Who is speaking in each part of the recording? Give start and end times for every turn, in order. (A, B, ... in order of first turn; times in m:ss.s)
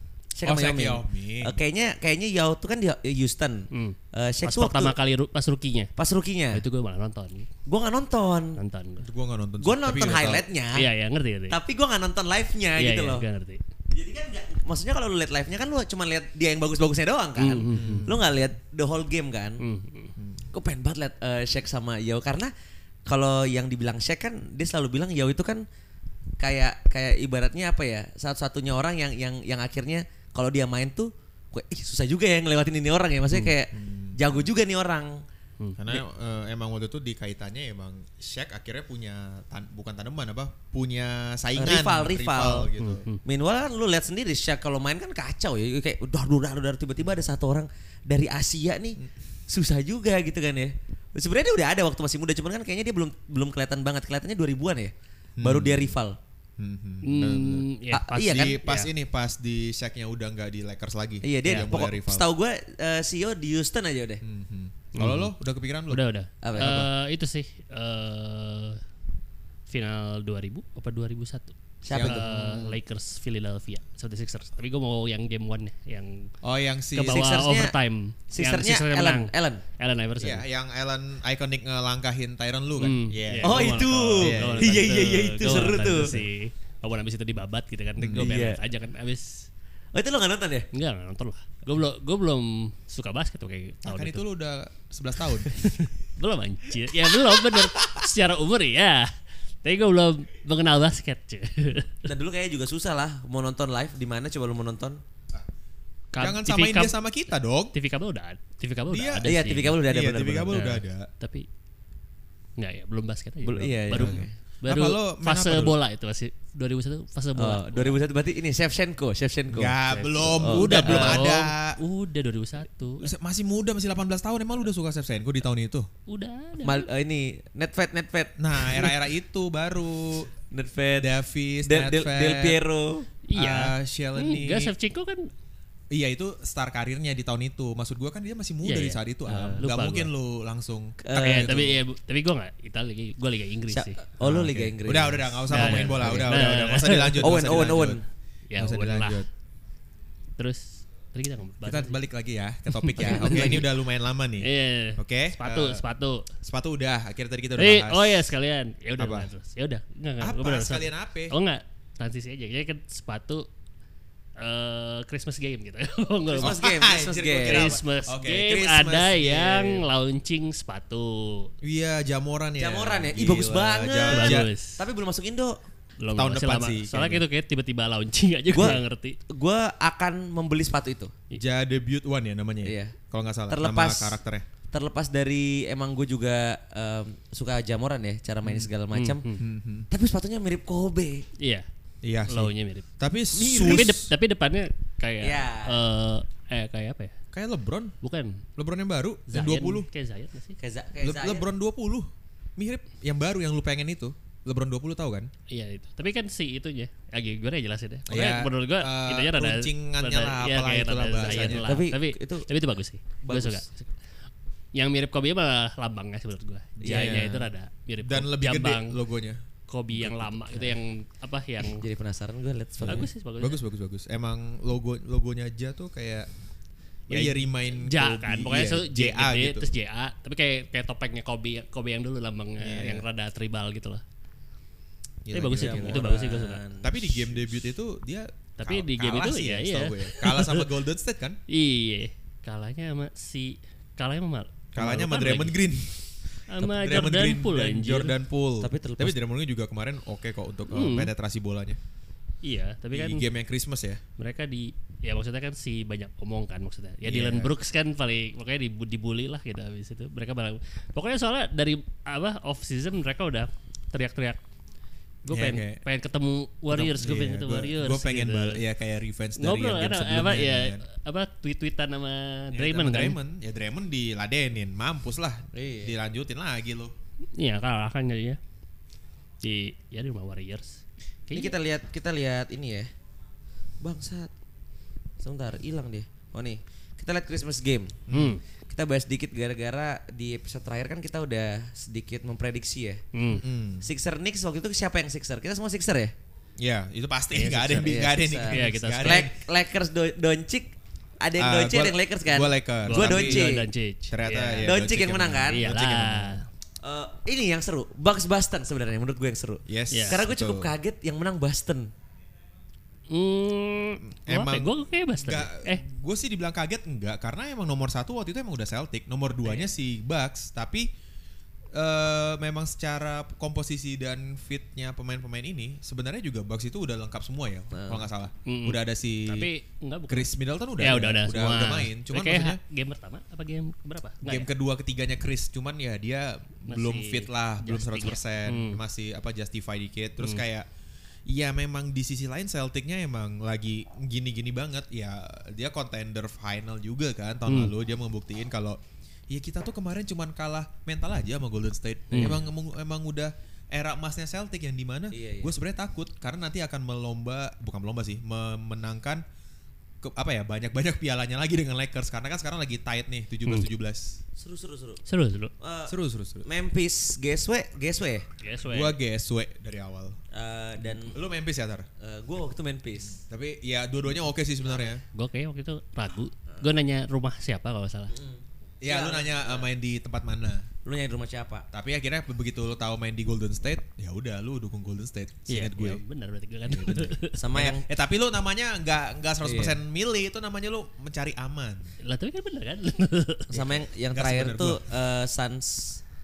0:00.3-0:04.9 A
0:00.4-0:01.6 B
0:03.7-0:05.9 C
0:06.0-0:06.6 A
0:06.5-0:07.5 C
0:07.6-0:08.6 A
0:08.6-0:09.1 C
0:09.0-0:10.4 B
0:09.6-0:10.9 A
0:10.7-0:11.6 C
0:11.5-0:13.2 A
0:12.8-0:13.6 C
0:13.9-0:19.6 A
0:17.4-0:18.1 C
0:17.7-0:18.2 B
0:19.6-0:20.1 C
0:20.2-0:20.5 B
0:20.5-0:22.5 A
0:23.0-0:25.6 A
0:26.4-0:35.2 A
0:33.7-0:34.5 B
0:35.6-0:36.0 C
0:35.8-0:43.0 B
0:41.6-0:42.7 A
0:42.8-0:43.2 C
0:43.2-0:56.2 A
0:55.4-0:55.9 B
0:56.6-1:02.3 B
0:57.0-0:58.9 C
0:57.9-0:58.5 A
1:01.2-1:04.2 A
1:04.2-1:06.0 B
1:04.9-1:05.3 C
1:05.9-1:08.8 C
1:06.4-1:06.8 A
1:06.6-1:06.9 B
1:09.7-1:16.3 C
1:11.8-1:12.4 A
1:11.9-1:12.7 B
1:16.4-1:17.2 B
1:16.9-1:17.7 A
1:17.0-1:20.4 C
1:18.3-1:19.6 A
1:20.2-1:25.0 B
1:22.8-1:29.5 C
1:23.4-1:26.1 A
1:28.0-1:28.3 B
1:28.1-1:28.6 A
1:29.9-1:30.7 A
1:30.7-1:34.2 C
1:33.8-1:35.6 B
1:35.4-1:39.1 C
1:39.6-1:42.0 C
1:42.0-1:45.0 A
1:46.1-1:47.0 C
1:46.2-1:47.7 B
1:47.7-1:49.8 C
1:48.9-1:51.1 B
1:49.2-1:50.6 A
1:50.5-1:51.4 C
1:52.6-1:58.0 C
1:53.4-1:54.3 A
1:54.0-1:55.8 B
1:57.4-2:01.2 A
1:59.5-2:01.8 B
2:00.5-2:03.1 C
2:03.0-2:05.9 B
2:06.1-2:06.8 C
2:06.6-2:08.9 A
2:08.4-2:10.3 B
2:10.5-2:13.1 A
2:11.0-2:12.6 B
2:13.3-2:15.3 C
2:13.3-2:14.7 B
2:15.9-2:21.8 B
2:18.6-2:20.1 C
2:21.0-2:21.6 A
2:21.1-2:24.0 C
2:23.7-2:26.6 A
2:24.2-2:28.0 B
2:25.5-2:27.3 C
2:27.2-2:28.0 A
2:28.5-2:29.2 C
2:28.6-2:29.3 B
2:30.4-2:32.0 C
2:31.6-2:35.8 B
2:32.7-2:33.6 C
2:33.0-2:33.6 A
2:34.4-2:36.3 C
2:36.4-2:38.3 B
2:37.6-2:43.5 C
2:39.0-2:39.3 B
2:40.2-2:41.4 B
2:44.4-2:46.6 C
2:46.4-2:49.8 B
2:46.4-2:47.8 A
2:47.4-2:51.5 C
2:51.6-2:54.5 B
2:52.6-2:55.6 A
2:54.1-2:54.8 C
2:56.0-2:59.2 C
2:56.2-2:57.2 B
2:58.5-3:01.1 A
3:01.4-3:04.4 B
3:02.6-3:03.0 A
3:03.5-3:04.2 A
3:04.7-3:09.2 A
3:08.4-3:08.7 B
3:08.9-3:09.4 C
3:09.4-3:09.9 B
3:09.9-3:11.3 A
3:11.4-3:11.7 C
3:12.0-3:14.1 B
3:12.3-3:17.1 C
3:13.4-3:13.9 A
3:15.2-3:15.8 A
3:17.3-3:17.9 B
3:18.0-3:18.4 C
3:18.6-3:19.9 B
3:19.3-3:20.6 C
3:20.6-3:21.5 A
3:21.0-3:25.3 B
3:25.5-3:33.9 C
3:28.1-3:31.7 B
3:31.3-3:32.5 A
3:33.2-3:33.6 A
3:34.7-3:39.0 C
3:36.8-3:37.3 A
3:36.8-3:37.5 B
3:38.0-3:40.7 B
3:39.7-3:41.8 C
3:41.6-3:43.1 A
3:42.8-3:46.3 B
3:42.9-3:43.6 C
3:47.1-3:49.7 B
3:47.1-3:54.0 C
3:52.6-3:53.0 B
3:55.2-3:56.1 B
3:55.3-3:56.6 C
3:55.5-3:57.4 A
3:56.8-4:01.4 B
3:58.6-4:00.7 C
4:01.5-4:05.6 C
4:04.7-4:11.8 B
4:06.5-4:08.2 C
4:08.6-4:09.2 A
4:10.7-4:11.1 C
4:12.4-4:13.2 C
4:12.9-4:14.0 B
4:14.2-4:24.4 C
4:17.0-4:17.5 B
4:25.3-4:25.8 B
4:25.3-4:28.6 C
4:26.7-4:30.8 B
4:29.4-4:33.2 C
4:32.5-4:36.9 B
4:35.5-4:35.9 A
4:37.4-4:38.4 C
4:39.4-4:41.5 C
4:41.3-4:42.9 A
4:43.8-4:44.3 A
4:45.2-4:48.0 A
4:48.1-4:48.4 B
4:48.1-4:48.4 C
4:48.6-4:53.0 A
4:53.1-4:53.4 C
4:53.4-4:53.9 B
4:53.8-4:56.1 A
4:56.6-4:59.3 B
4:57.3-4:57.9 C
4:57.6-5:03.7 A
4:58.5-4:59.3 C
5:01.4-5:03.5 B
5:02.8-5:04.7 C
5:04.1-5:06.4 B
5:04.6-5:05.7 A
5:05.5-5:06.4 C
5:06.8-5:11.9 A
5:09.6-5:10.7 B
5:09.9-5:10.2 C
5:13.1-5:15.8 C
5:14.2-5:20.9 B
5:21.7-5:29.5 B
5:27.7-5:28.0 A
5:28.4-5:34.5 C
5:30.1-5:32.6 B
5:34.2-5:40.7 B
5:36.7-5:38.8 C
5:41.3-5:59.2 B
5:47.5-5:47.7 C
5:52.1-5:52.4 C
5:55.1-5:55.5 A
6:00.0-6:04.2 B
6:04.4-6:05.0 A
6:05.0-6:05.5 C
6:05.6-6:08.2 A
6:05.9-6:06.5 B
6:08.4-6:09.0 C
6:08.6-6:10.2 B
6:10.3-6:11.2 A
6:10.9-6:11.9 B
6:12.0-6:13.2 A
6:13.2-6:15.0 B
6:15.1-6:18.1 C
6:18.1-6:19.7 A
6:18.8-6:20.7 B
6:20.8-6:21.6 A
6:21.7-6:26.0 B
6:25.5-6:27.4 C
6:26.7-6:31.9 B
6:27.3-6:27.9 A
6:29.4-6:29.8 A
6:32.0-6:33.6 C
6:33.5-6:36.0 A
6:33.5-6:34.8 B